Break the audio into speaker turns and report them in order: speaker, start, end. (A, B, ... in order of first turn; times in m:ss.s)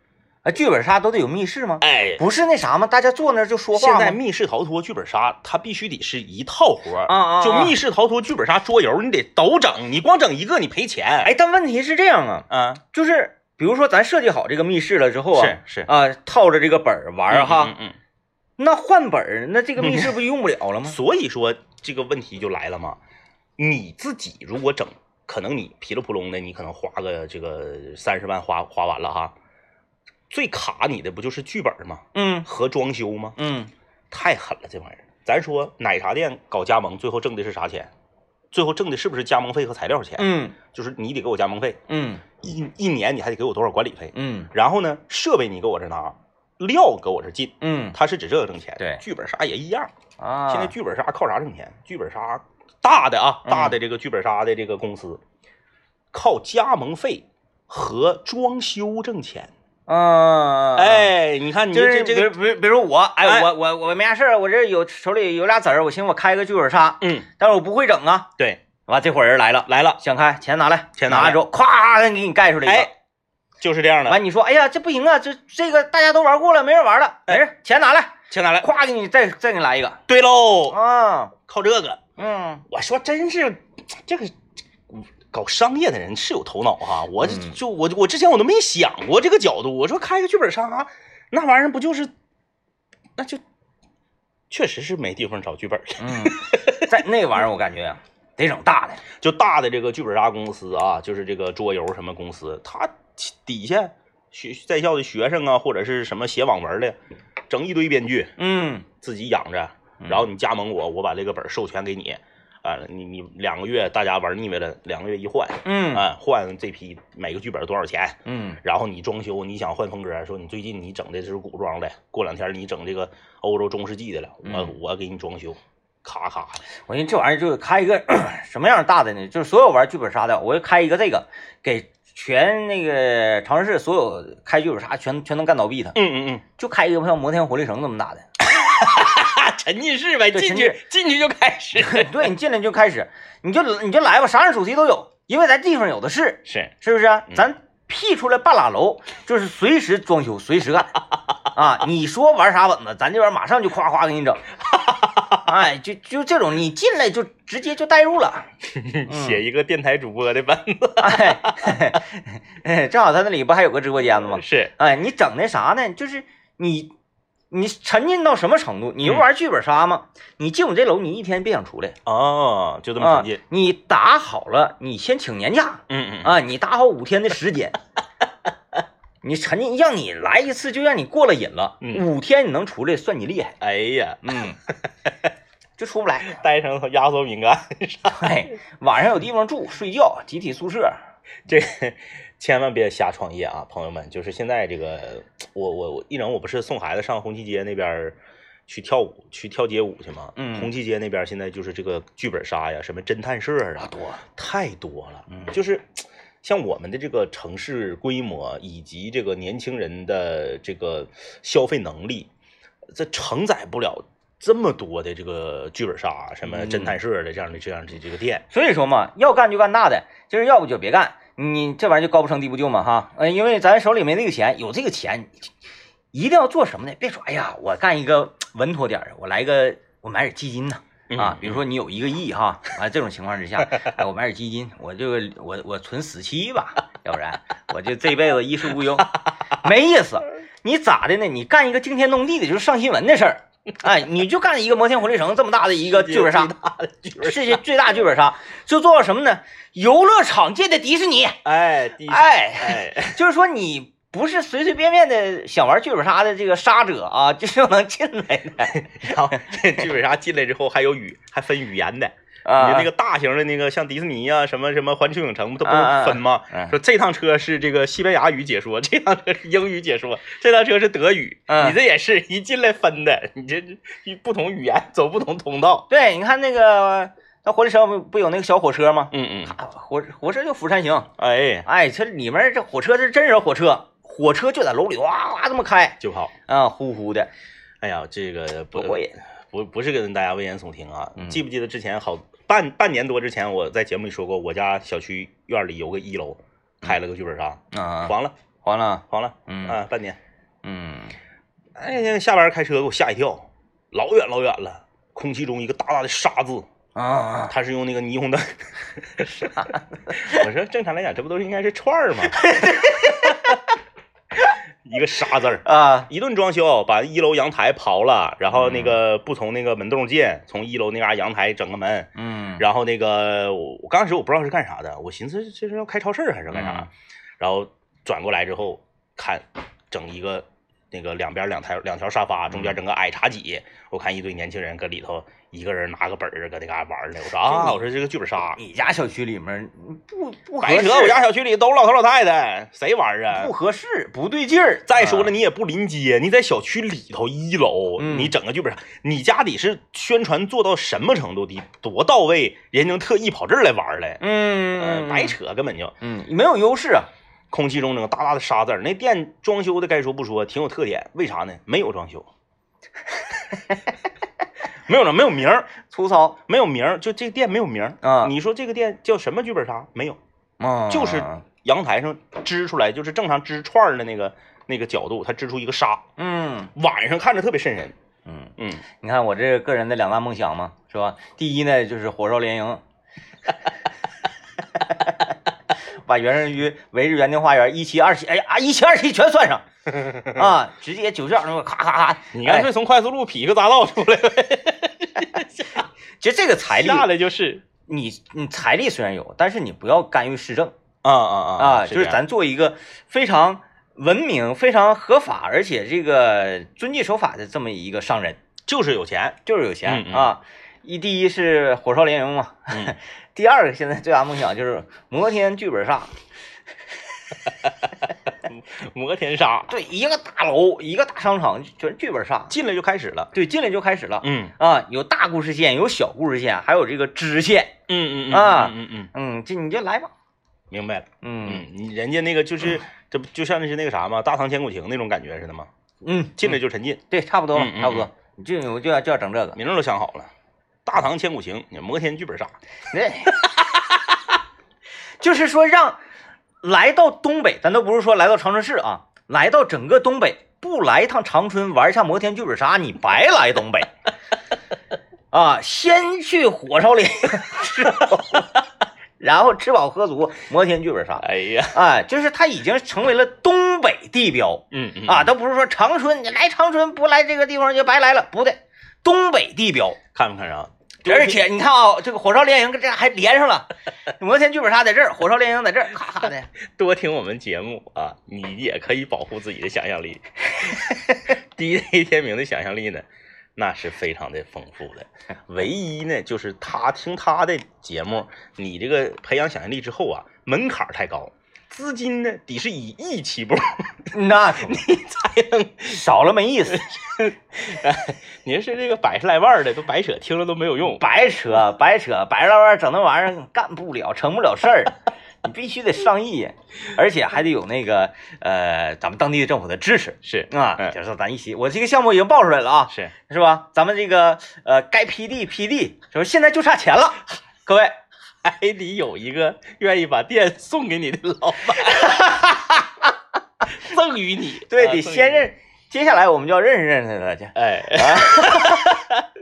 0:00.4-0:04.2 A
0:01.8-0:02.2 B
0:03.7-0:11.3 B
0:07.1-0:07.8 A
0:11.2-0:17.7 A
0:12.5-0:12.8 B
0:15.3-0:15.9 B
0:17.3-0:18.0 B
0:18.6-0:21.0 A
0:19.8-0:20.2 B
0:20.8-0:23.0 B
0:23.6-0:29.3 B
0:30.3-0:33.4 B
0:32.1-0:32.5 A
0:33.4-0:33.7 A
0:34.1-0:37.9 B
0:38.5-0:41.8 B
0:40.2-0:40.6 A
0:41.9-0:42.2 A
0:42.4-0:49.9 B
0:44.1-0:44.5 A
0:47.6-0:48.0 A
0:50.2-0:50.7 A
0:50.5-0:55.2 B
0:53.4-0:53.8 A
0:56.1-0:59.5 B
0:59.9-1:01.1 A
1:00.8-1:02.4 B
1:01.7-1:08.3 A
1:03.2-1:03.5 B
1:07.0-1:07.3 B
1:08.9-1:12.9 A
1:09.7-1:10.0 B
1:11.0-1:11.4 B
1:13.6-1:14.2 B
1:14.1-1:20.0 A
1:18.3-1:18.7 B
1:20.1-1:20.8 B
1:20.7-1:21.3 A
1:21.4-1:22.0 B
1:22.2-1:22.6 A
1:22.7-1:24.3 B
1:24.9-1:32.1 B
1:27.2-1:27.6 A
1:34.5-1:36.9 B
1:36.0-1:39.0 A
1:39.2-1:47.0 B
1:47.5-1:48.3 B
1:48.4-1:48.8 A
1:48.9-2:06.6 B
1:55.6-1:56.1 A
1:58.2-1:58.6 A
2:04.4-2:04.7 A
2:06.9-2:16.0 A
2:15.9-2:16.4 B
2:16.6-2:18.2 A
2:18.4-2:22.3 B
2:20.3-2:20.8 A
2:21.8-2:34.4 A
2:26.5-2:26.7 B
2:34.7-2:35.4 B
2:35.4-2:38.5 A
2:38.7-2:41.9 B
2:39.1-2:39.4 A
2:41.0-2:46.9 A
2:44.2-2:44.7 B
2:47.5-2:52.0 A
2:52.0-2:53.4 B
2:53.0-2:57.8 A
2:55.9-2:56.4 B
2:59.2-3:03.6 A
3:03.6-3:05.1 B
3:04.2-3:04.6 A
3:05.8-3:06.3 A
3:06.3-3:08.4 B
3:08.1-3:11.0 A
3:11.5-3:32.3 B
3:20.4-3:20.7 A
3:23.8-3:24.2 A
3:32.9-3:38.4 B
3:36.4-3:37.0 A
3:38.5-3:45.5 A
3:46.1-4:06.5 A
3:51.1-3:51.6 B
3:58.8-3:59.2 B
4:05.8-4:07.6 B
4:07.2-4:11.4 A
4:11.4-4:13.2 B
4:12.0-4:19.5 A
4:18.8-4:35.9 B
4:22.4-4:22.9 A
4:25.6-4:26.7 A
4:31.5-4:31.8 A
4:35.9-4:41.1 A
4:39.1-4:39.5 B
4:41.2-4:41.7 B
4:41.6-4:47.3 A
4:46.0-4:46.3 B
4:47.8-4:58.3 B
4:48.7-4:49.1 A
4:57.7-4:59.8 A
4:59.1-5:00.2 B
5:00.6-5:01.1 A
5:01.8-5:06.7 B
5:06.9-5:07.5 A
5:07.5-5:13.5 B
5:09.3-5:10.4 A
5:12.3-5:13.6 A
5:14.8-5:38.6 B
5:15.6-5:16.1 A
5:18.5-5:19.0 A
5:22.2-5:22.6 A
5:26.5-5:26.9 A
5:32.5-5:32.8 A
5:37.4-5:37.8 A
5:38.6-5:41.2 A
5:40.6-5:43.5 B
5:43.3-5:45.3 A
5:44.9-5:54.2 B
5:48.0-5:48.3 A
5:54.2-5:55.3 A
5:54.7-5:55.9 B
5:56.0-5:57.1 A
5:57.5-6:02.3 B
6:04.8-6:05.7 B
6:05.8-6:06.4 A
6:06.5-6:10.2 B
6:08.0-6:08.3 A
6:10.6-6:11.4 A
6:10.9-6:16.1 B
6:16.2-6:16.7 A
6:16.7-6:18.0 B
6:18.2-6:22.8 A
6:18.6-6:18.8 B
6:24.8-6:25.3 A
6:26.0-6:32.7 A
6:32.3-6:35.9 B
6:36.2-6:37.1 A
6:36.7-6:37.6 B
6:37.9-6:40.7 A
6:41.0-6:42.2 B
6:41.6-6:48.4 A
6:48.6-6:50.4 B
6:49.4-6:56.2 A
6:58.4-6:59.7 B
6:59.7-7:02.5 A
7:02.5-7:03.3 B
7:03.3-7:07.8 A
7:04.2-7:04.5 B
7:07.9-7:09.1 B
7:08.3-7:10.1 A
7:10.7-7:15.7 B
7:11.2-7:11.7 A
7:16.0-7:16.6 A
7:16.4-7:18.1 B
7:17.1-7:19.6 A
7:19.6-7:20.3 B
7:20.8-7:22.5 B
7:22.9-7:23.4 A
7:23.4-7:24.2 B
7:25.2-7:26.0 A
7:26.6-7:33.9 A
7:35.3-7:38.5 A
7:38.0-7:38.4 B
7:39.2-7:50.0 A
7:41.2-7:41.8 B
7:44.7-7:45.3 B
7:50.1-7:51.4 B
7:51.0-7:53.7 A
7:54.2-7:56.5 A
7:56.7-8:03.0 B
8:03.6-8:16.0 B
8:14.1-8:14.9 A
8:15.8-8:16.8 A
8:16.7-8:21.0 B
8:20.9-8:38.0 A
8:30.2-8:30.9 B
8:38.4-8:42.8 B
8:41.9-8:42.5 A
8:43.7-8:45.4 B
8:44.7-8:49.0 A
8:47.5-8:49.2 B